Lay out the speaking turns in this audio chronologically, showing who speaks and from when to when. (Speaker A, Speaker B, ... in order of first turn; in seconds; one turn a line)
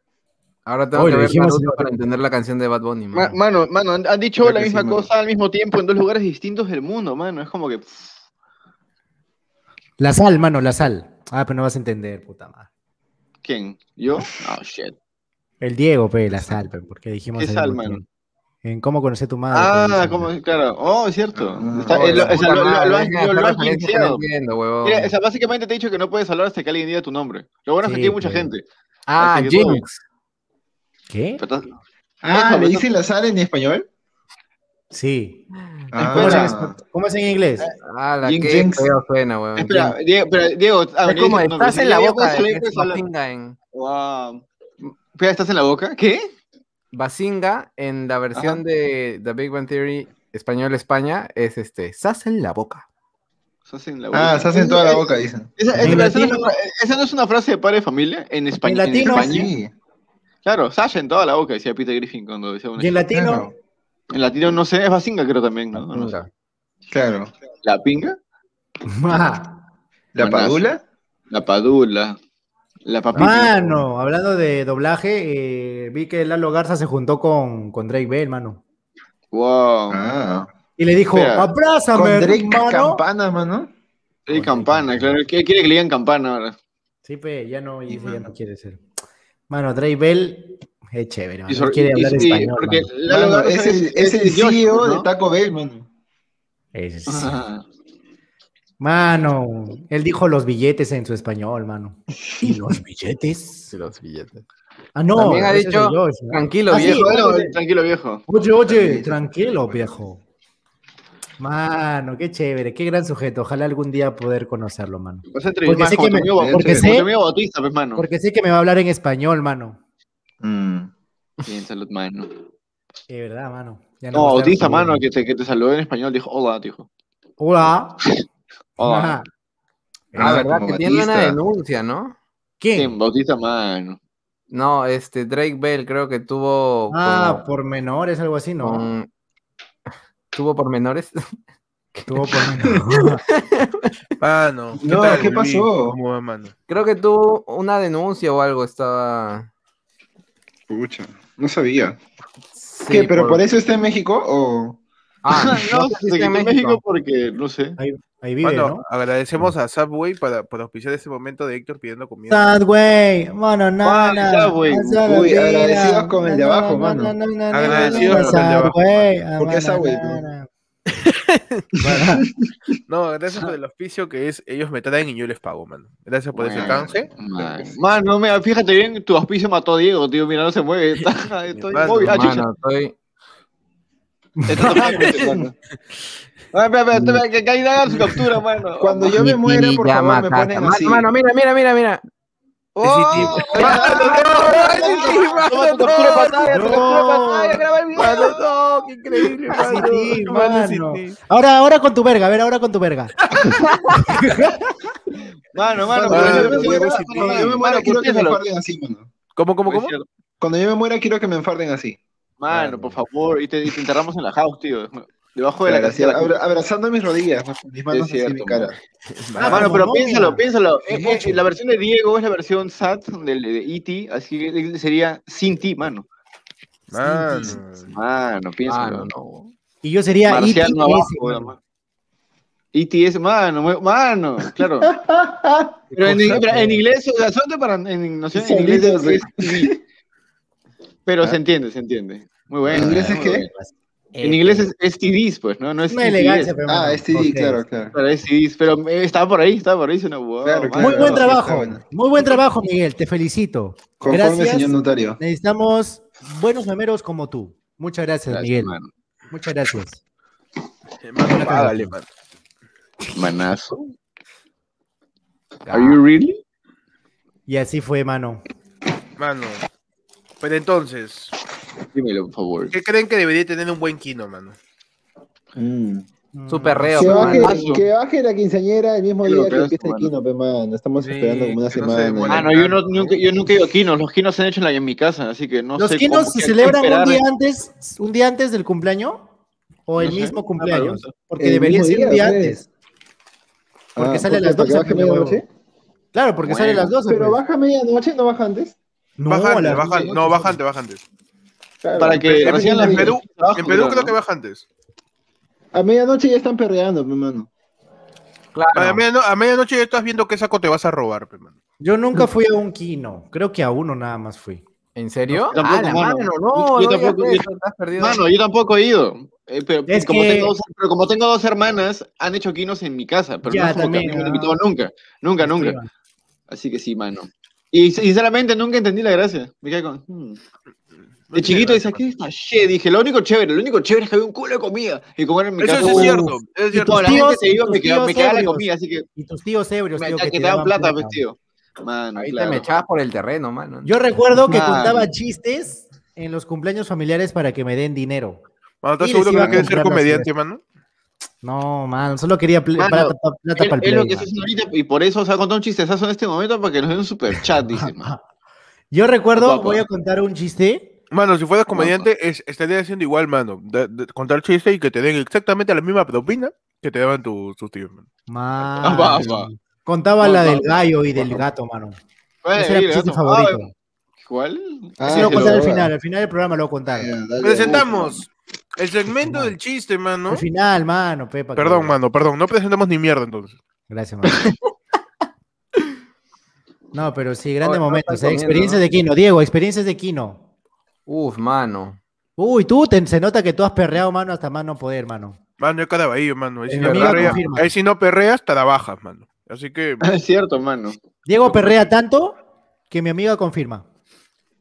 Speaker A: 0.7-3.4
Speaker B: 0.9-1.9
Speaker C: 3.1-8.1
Speaker D: 4.4-5.0
Speaker B: 10.0-12.7
Speaker C: 13.4-14.9
Speaker B: 15.6-18.1
Speaker C: 17.4-18.0
Speaker B: 18.6-20.3
Speaker C: 19.5-24.2
Speaker D: 21.4-22.4
Speaker A: 21.9-25.1
Speaker C: 24.8-28.6
Speaker B: 27.8-28.5
Speaker A: 29.1-30.0
Speaker C: 29.2-29.8
Speaker B: 31.1-31.4
Speaker C: 31.4-31.7
Speaker D: 32.2-33.9
Speaker C: 32.3-32.9
Speaker B: 34.9-35.5
Speaker D: 35.9-36.8
Speaker C: 36.0-36.5
Speaker B: 36.1-37.7
Speaker C: 37.6-38.7
Speaker A: 37.8-40.0
Speaker D: 38.4-38.9
Speaker C: 39.6-43.0
Speaker A: 41.0-43.6
Speaker C: 43.7-46.3
Speaker A: 46.9-52.9
Speaker C: 48.3-48.6
Speaker C: 53.7-59.5
Speaker D: 54.1-56.0
Speaker B: 55.8-56.5
Speaker B: 58.6-59.5
Speaker D: 59.0-59.7
Speaker C: 60.5-63.0
Speaker B: 62.8-63.5
Speaker D: 63.1-63.5
Speaker C: 64.1-66.2
Speaker A: 65.8-66.3
Speaker D: 66.9-67.3
Speaker C: 67.6-68.2
Speaker B: 68.9-69.6
Speaker D: 70.1-70.8
Speaker C: 70.2-70.6
Speaker C: 71.3-72.2
Speaker C: 72.9-73.9
Speaker B: 73.1-78.6
Speaker C: 79.3-80.0
Speaker D: 79.9-80.5
Speaker B: 80.8-83.0
Speaker C: 81.1-81.5
Speaker D: 81.9-83.7
Speaker C: 84.3-86.5
Speaker B: 84.3-85.2
Speaker B: 87.0-88.8
Speaker B: 89.5-92.9
Speaker C: 91.5-95.1
Speaker D: 93.1-95.9
Speaker B: 96.7-97.4
Speaker C: 97.1-97.7
Speaker B: 98.8-103.7
Speaker A: 103.7-104.4
Speaker B: 105.0-107.5
Speaker A: 105.2-107.2
Speaker C: 106.7-108.2
Speaker B: 108.3-110.2
Speaker D: 108.7-110.0
Speaker B: 111.4-117.1
Speaker C: 115.3-118.0
Speaker D: 116.3-117.0
Speaker B: 118.0-119.8
Speaker D: 120.4-120.9
Speaker C: 121.5-122.3
Speaker B: 123.1-125.0
Speaker C: 124.1-126.9
Speaker B: 127.4-128.0
Speaker C: 128.8-129.2
Speaker B: 128.8-129.3
Speaker B: 130.1-130.4
Speaker D: 130.2-131.4
Speaker A: 130.2-132.2
Speaker B: 132.6-132.9
Speaker C: 132.8-134.0
Speaker A: 134.5-137.4
Speaker B: 136.9-138.9
Speaker A: 138.6-139.1
Speaker A: 140.3-141.2
Speaker A: 141.9-143.9
Speaker B: 142.1-143.2
Speaker E: 144.2-146.5
Speaker D: 144.8-146.0
Speaker A: 146.7-149.5
Speaker D: 150.7-152.0
Speaker A: 152.6-153.4
Speaker D: 152.9-154.8
Speaker A: 155.2-156.8
Speaker C: 155.3-157.8
Speaker B: 157.8-158.8
Speaker E: 158.4-162.6
Speaker B: 162.3-170.5
Speaker C: 163.8-165.1
Speaker D: 165.1-167.2
Speaker E: 167.5-169.1
Speaker C: 167.7-168.4
Speaker D: 169.4-170.3
Speaker E: 171.0-171.6
Speaker B: 171.8-172.2
Speaker E: 172.9-177.1
Speaker C: 176.3-182.5
Speaker D: 177.4-177.7
Speaker E: 181.6-182.2
Speaker A: 182.0-182.9
Speaker B: 184.4-185.1
Speaker C: 184.5-185.5
Speaker C: 186.5-189.2
Speaker A: 186.9-187.2
Speaker D: 188.8-191.1
Speaker A: 189.2-192.0
Speaker C: 192.8-198.4
Speaker E: 192.8-196.3
Speaker A: 193.5-196.8
Speaker D: 193.7-194.9
Speaker B: 196.5-197.6
Speaker A: 197.9-199.7
Speaker E: 198.0-201.2
Speaker C: 199.5-200.2
Speaker B: 199.6-203.1
Speaker A: 203.5-204.2
Speaker B: 203.9-204.6
Speaker C: 205.5-208.4
Speaker D: 205.9-209.1
Speaker E: 206.1-207.6
Speaker E: 209.4-209.9
Speaker C: 209.7-210.1
Speaker D: 210.4-212.0
Speaker C: 212.4-216.4
Speaker A: 212.5-212.8
Speaker D: 215.6-218.8
Speaker C: 217.9-218.8
Speaker A: 219.2-219.7
Speaker B: 219.4-221.4
Speaker C: 219.4-226.1
Speaker E: 226.9-227.9
Speaker B: 227.0-227.6
Speaker C: 227.9-229.1
Speaker A: 228.7-229.5
Speaker B: 229.8-231.5
Speaker C: 230.3-231.6
Speaker C: 232.7-234.9
Speaker D: 234.8-235.8
Speaker C: 235.9-239.7
Speaker E: 236.0-236.4
Speaker D: 238.3-239.8
Speaker C: 241.1-243.5
Speaker D: 242.7-243.5
Speaker B: 243.5-244.7
Speaker C: 244.2-246.5
Speaker B: 245.9-247.6
Speaker D: 246.7-247.9
Speaker C: 247.9-251.3
Speaker D: 250.4-251.8
Speaker B: 250.8-258.8
Speaker D: 254.0-255.2
Speaker C: 258.3-258.9
Speaker B: 259.3-260.0
Speaker E: 261.0-262.1
Speaker B: 261.2-261.9
Speaker C: 263.1-263.9
Speaker A: 265.7-266.0
Speaker C: 265.7-266.4
Speaker B: 267.5-268.4
Speaker E: 269.2-269.6
Speaker E: 270.4-271.3
Speaker C: 271.9-272.7
Speaker E: 272.7-274.6
Speaker D: 275.6-276.1
Speaker B: 276.4-277.5
Speaker A: 276.5-277.6
Speaker D: 276.9-282.5
Speaker C: 277.3-277.8
Speaker C: 279.2-280.1
Speaker E: 281.0-283.2
Speaker C: 282.3-287.2
Speaker B: 285.8-289.3
Speaker B: 289.9-292.6
Speaker C: 290.0-291.1
Speaker D: 291.4-292.7
Speaker B: 294.0-295.4
Speaker D: 294.0-295.5
Speaker B: 296.1-297.4
Speaker C: 296.5-296.9
Speaker D: 296.6-298.8
Speaker B: 299.2-300.5
Speaker E: 299.3-301.0
Speaker C: 299.7-300.2
Speaker D: 301.8-303.1
Speaker C: 302.0-304.1
Speaker E: 302.3-304.6
Speaker D: 305.7-307.5
Speaker A: 308.6-309.0
Speaker E: 308.8-311.5
Speaker B: 311.8-314.6
Speaker A: 314.9-318.2
Speaker B: 315.3-315.5
Speaker C: 315.5-317.4
Speaker C: 318.0-325.8
Speaker B: 319.9-320.5
Speaker B: 323.5-324.6
Speaker B: 325.4-325.9
Speaker C: 326.5-330.4
Speaker E: 331.3-332.0
Speaker C: 331.4-336.2
Speaker E: 335.6-337.3
Speaker B: 335.8-341.2
Speaker C: 336.7-339.1
Speaker C: 340.0-342.7
Speaker A: 342.2-343.9
Speaker B: 343.8-348.4
Speaker C: 344.5-345.1
Speaker E: 348.8-350.6
Speaker B: 349.0-350.3
Speaker B: 351.4-354.3
Speaker C: 352.8-358.1
Speaker B: 357.7-358.2
Speaker B: 358.9-360.9
Speaker C: 359.4-359.8
Speaker E: 361.1-368.1
Speaker C: 361.7-362.1
Speaker B: 368.3-372.0
Speaker C: 368.8-369.5
Speaker C: 370.2-370.7
Speaker C: 372.4-373.7
Speaker B: 372.6-373.7
Speaker C: 374.2-375.7
Speaker D: 375.0-375.9
Speaker B: 375.1-377.1
Speaker D: 376.9-378.2
Speaker E: 377.4-380.4
Speaker B: 379.2-379.5
Speaker B: 380.3-381.9
Speaker E: 381.6-383.6
Speaker B: 383.9-384.5
Speaker B: 386.9-390.4
Speaker A: 387.6-388.8
Speaker A: 391.1-392.0
Speaker B: 392.4-395.4
Speaker E: 395.6-400.0
Speaker B: 396.7-397.7
Speaker A: 396.7-397.4
Speaker C: 400.0-401.0
Speaker B: 401.3-402.4
Speaker B: 402.9-403.9